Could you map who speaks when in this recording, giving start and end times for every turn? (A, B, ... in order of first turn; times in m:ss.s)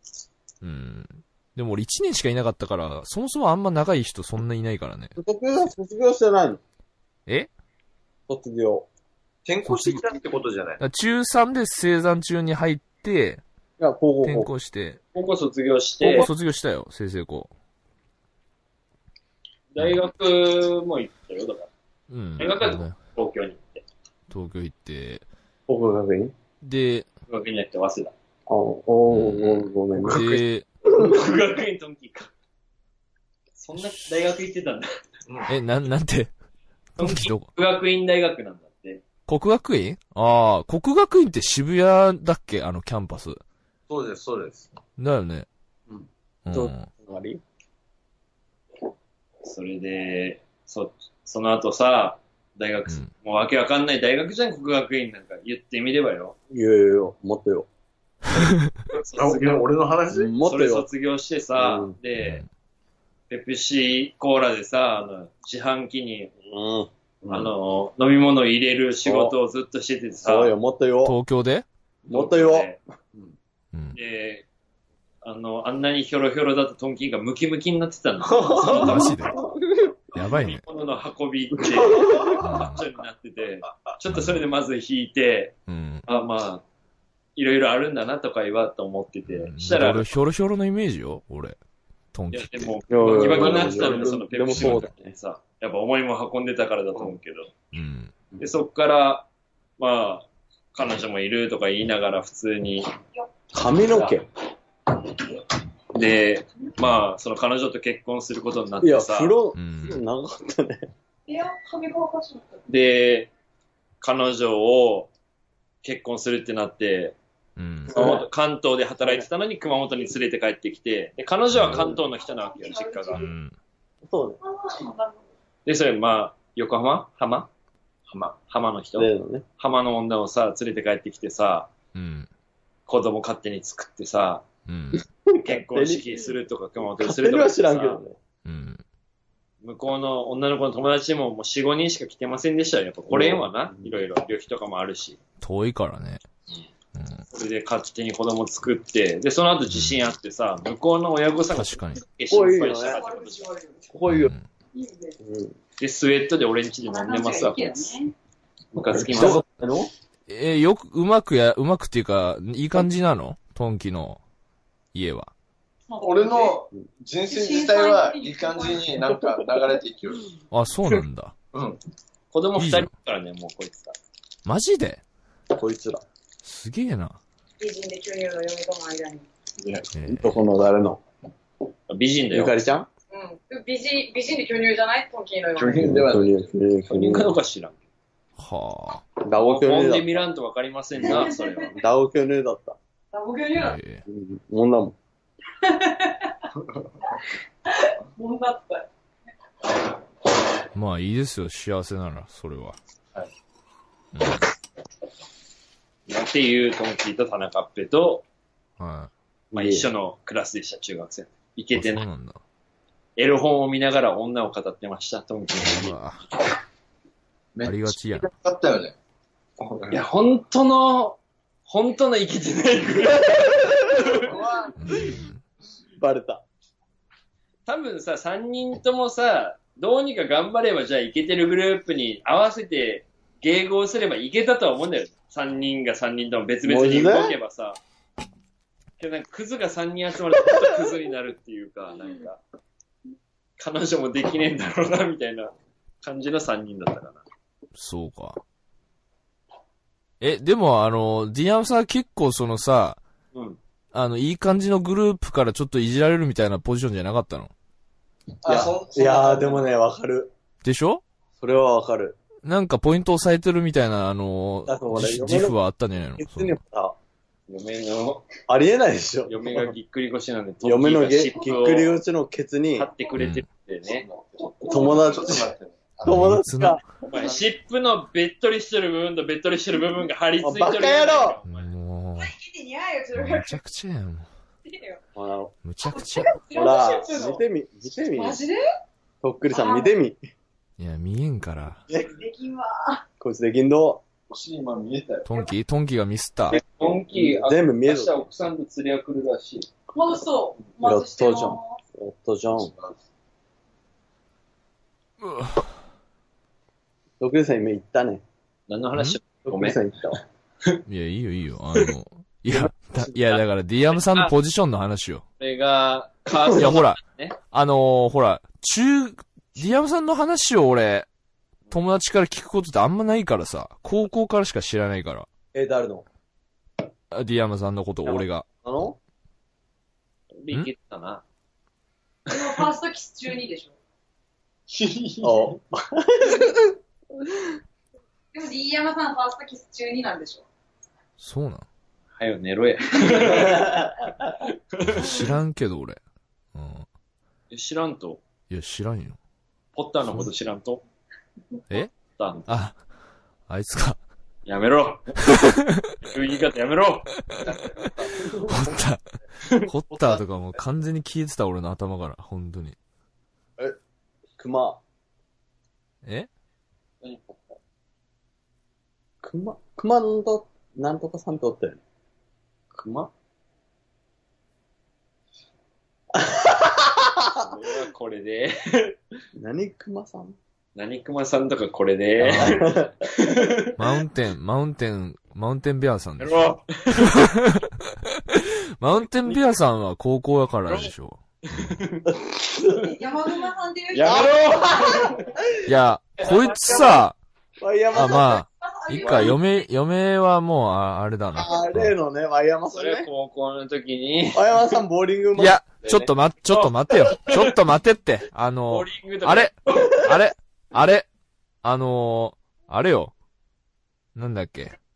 0:00.6-0:05.1 A
0:05.2-0:06.6 B
0:08.3-0:08.9 B
0:09.4-0:10.8 C
0:09.6-0:10.0 A
0:10.8-0:13.4 A
0:13.8-0:14.5 B
0:14.2-0:15.0 A
0:15.1-0:16.3 D
0:16.0-0:16.3 B
0:16.1-0:17.5 A
0:19.7-0:21.7 D
0:22.1-0:23.0 A
0:22.4-0:23.8 D
0:24.3-0:25.2 A
0:25.7-0:26.3 B
0:26.6-0:27.1 A
0:27.3-0:28.1 D
0:28.5-0:30.4 B
0:29.1-0:30.7 A
0:30.8-0:32.3 D
0:33.6-0:34.9 D
0:35.5-0:36.3 A
0:37.0-0:37.5 A
0:37.0-0:39.0 D
0:39.3-0:43.4 A
0:43.9-0:44.8 C
0:45.0-0:45.5 A
0:46.4-0:46.9 A
0:46.5-0:47.4 B
0:49.4-0:56.4 D
0:56.5-0:57.7 B
0:58.4-0:58.7 A
0:58.9-0:59.7 D
0:59.1-1:00.3 C
1:00.1-1:00.9 B
1:00.4-1:02.4 D
1:01.6-1:02.0 B
1:02.2-1:02.5 A
1:03.3-1:06.3 D
1:06.5-1:06.9 B
1:07.2-1:07.5 C
1:07.3-1:10.6 D
1:09.0-1:09.4 B
1:10.2-1:11.2 B
1:11.0-1:11.7 A
1:12.0-1:12.8 D
1:12.1-1:12.8 B
1:13.9-1:14.4 D
1:15.2-1:19.2 D
1:18.4-1:18.7 C
1:18.7-1:20.0 B
1:18.7-1:19.4 A
1:20.1-1:20.6 A
1:20.2-1:25.6 D
1:21.6-1:22.5 B
1:22.4-1:22.8 A
1:24.1-1:24.5 A
1:25.7-1:26.0 A
1:26.1-1:26.6 D
1:27.4-1:30.1 D
1:29.3-1:31.6 A
1:32.1-1:32.8 A
1:32.3-1:37.5 D
1:32.9-1:35.1 B
1:33.2-1:34.2 C
1:34.5-1:34.9 A
1:37.7-1:38.1 A
1:38.4-1:39.3 D
1:39.8-1:42.9 D
1:43.5-1:44.3 B
1:43.6-1:44.2 D
1:45.9-1:49.4 D
1:48.8-1:50.9 B
1:49.6-1:50.0 A
1:51.3-1:52.6 E
1:52.7-1:53.3 D
1:54.0-1:55.1 D
1:55.8-1:57.2 D
1:57.6-1:58.0 A
1:57.9-2:03.2 D
1:57.9-1:58.2 B
2:01.5-2:01.9 A
2:01.7-2:02.0 B
2:02.3-2:03.3 E
2:03.1-2:03.6 A
2:04.0-2:04.4 B
2:04.4-2:05.2 E
2:05.7-2:07.5 D
2:08.1-2:08.4 C
2:08.5-2:11.7 D
2:09.0-2:09.4 B
2:11.9-2:12.3 A
2:12.9-2:14.4 D
2:14.7-2:15.0 A
2:15.0-2:16.2 B
2:15.4-2:18.0 D
2:17.0-2:18.2 B
2:18.4-2:18.8 A
2:19.6-2:25.2 D
2:23.1-2:24.0 B
2:25.4-2:26.2 A
2:27.0-2:27.2 A
2:27.3-2:33.6 D
2:29.7-2:30.1 A
2:31.5-2:32.0 A
2:32.3-2:33.0 B
2:32.8-2:33.8 E
2:33.9-2:34.3 B
2:34.1-2:34.4 A
2:34.7-2:35.2 E
2:35.2-2:35.6 B
2:35.8-2:38.0 D
2:36.9-2:38.1 E
2:38.7-2:39.4 D
2:38.8-2:39.9 B
2:39.2-2:39.4 A
2:40.3-2:44.2 A
2:44.9-2:45.3 A
2:45.9-2:46.6 E
2:46.0-2:50.4 C
2:47.3-2:49.3 E
2:50.5-2:51.3 A
2:51.5-2:51.8 C
2:52.3-2:53.9 D
2:52.6-2:52.9 A
2:54.4-2:55.0 A
2:55.5-2:56.0 B
2:56.4-2:57.2 A
2:57.6-2:59.3 E
2:59.6-2:59.9 C
2:59.9-3:00.4 A
3:00.1-3:01.0 B
3:01.9-3:02.6 D
3:02.3-3:02.9 B
3:03.1-3:05.9 E
3:05.6-3:06.5 C
3:05.8-3:07.4 B
3:06.9-3:07.8 D
3:08.4-3:09.0 A
3:09.2-3:10.2 B
3:09.3-3:11.8 D
3:11.0-3:11.8 E
3:11.8-3:12.8 B
3:13.1-3:13.8 E
3:13.5-3:14.0 A
3:14.1-3:15.0 B
3:15.6-3:16.3 E
3:17.7-3:18.9 E
3:20.7-3:22.8 A
3:24.1-3:24.4 A
3:26.1-3:28.2 D
3:28.8-3:29.1 A
3:29.5-3:29.9 B
3:29.5-3:32.1 D
3:31.8-3:32.4 A
3:33.2-3:36.0 D
3:35.6-3:36.2 A
3:37.6-3:39.0 C
3:37.6-3:38.3 A
3:39.6-3:40.0 C
3:39.9-3:44.4 D
3:44.2-3:44.8 C
3:44.8-3:45.4 A
3:46.0-3:46.4 B
3:47.7-3:57.8 D
3:56.6-3:57.4 B
3:59.0-4:02.4 D
4:03.6-4:07.2 D
4:07.8-4:08.4 A
4:10.2-4:13.0 A
4:13.3-4:13.6 D
4:13.9-4:17.5 A
4:18.4-4:19.7 C
4:18.4-4:20.3 B
4:20.6-4:21.0 A
4:21.4-4:22.2 B
4:22.4-4:26.6 A
4:24.7-4:25.6 B
4:26.2-4:27.0 B
4:27.5-4:28.3 D
4:28.5-4:29.7 B
4:29.3-4:32.0 D
4:30.6-4:32.9 B
4:32.8-4:34.1 D
4:33.2-4:33.4 A
4:33.9-4:36.2 C
4:34.7-4:35.5 B
4:36.0-4:36.8 A
4:36.0-4:36.8 B
4:37.0-4:41.7 D
4:40.4-4:41.4 B
4:41.5-4:42.3 A
4:42.2-4:43.6 E
4:43.1-4:44.3 A
4:44.6-4:45.0 E
4:45.2-4:45.5 B
4:45.6-4:46.4 A
4:45.9-4:47.4 E
4:46.5-4:48.4 B
4:48.0-4:48.6 E
4:49.2-4:50.2 B
4:49.5-4:49.9 E
4:50.8-4:51.8 A
4:52.0-4:53.0 E
4:53.2-4:54.0 B
4:54.3-4:55.3 C
4:55.3-4:56.6 A
4:56.5-4:59.7 D
4:56.5-4:58.2 B
4:59.9-5:01.8 E
5:00.8-5:02.7 B
5:02.6-5:03.0 C
5:05.2-5:05.7 A
5:07.2-5:08.2 B
5:08.7-5:09.8 D
5:09.4-5:10.2 B
5:10.9-5:15.2 A
5:13.9-5:14.3 D
5:15.4-5:17.4 D
5:16.5-5:17.0 A
5:17.5-5:21.1 A
5:21.7-5:25.3 A
5:25.5-5:26.0 B
5:27.1-5:28.5 A
5:28.0-5:29.0 B
5:30.3-5:31.2 D
5:32.3-5:33.7 E
5:32.3-5:32.6 D
5:34.7-5:35.5 D
5:35.2-5:36.7 B
5:38.3-5:40.5 E
5:41.2-5:41.7 A
5:42.2-5:45.3 D
5:43.3-5:43.9 B
5:44.8-5:46.0 A
5:46.5-5:46.9 A
5:47.5-5:48.2 D
5:48.5-5:49.2 A
5:49.8-5:50.8 D
5:52.2-5:52.5 D
5:52.5-5:52.8 A
5:53.5-5:54.0 A
5:54.5-5:55.4 D
5:55.3-5:55.9 A
5:56.0-5:57.1 D
5:57.4-5:58.3 C
5:57.8-5:59.0 A
5:59.4-5:59.7 D
5:59.6-6:02.8 A
6:04.4-6:04.8 B
6:07.0-6:07.4 C
6:09.2-6:11.8 B
6:12.7-6:13.1 D
6:16.2-6:17.4 B
6:17.4-6:19.0 D
6:19.4-6:20.4 B
6:20.8-6:23.8 D
6:22.2-6:22.7 A
6:22.4-6:22.9 B
6:23.8-6:26.4 A
6:26.2-6:27.2 D
6:27.0-6:31.8 A
6:31.4-6:32.1 D
6:32.1-6:32.9 B
6:32.8-6:35.0 E
6:33.9-6:35.3 D
6:34.1-6:34.9 B
6:35.7-6:37.2 A
6:36.2-6:37.0 D
6:37.6-6:38.4 B
6:37.9-6:41.9 A
6:38.6-6:39.4 E
6:39.0-6:39.4 D
6:41.4-6:43.1 B
6:42.7-6:44.6 D
6:44.3-6:46.1 B
6:45.4-6:51.1 A
6:46.5-6:47.6 D
6:48.7-6:50.1 D
6:51.6-6:53.1 A
6:54.2-6:54.8 A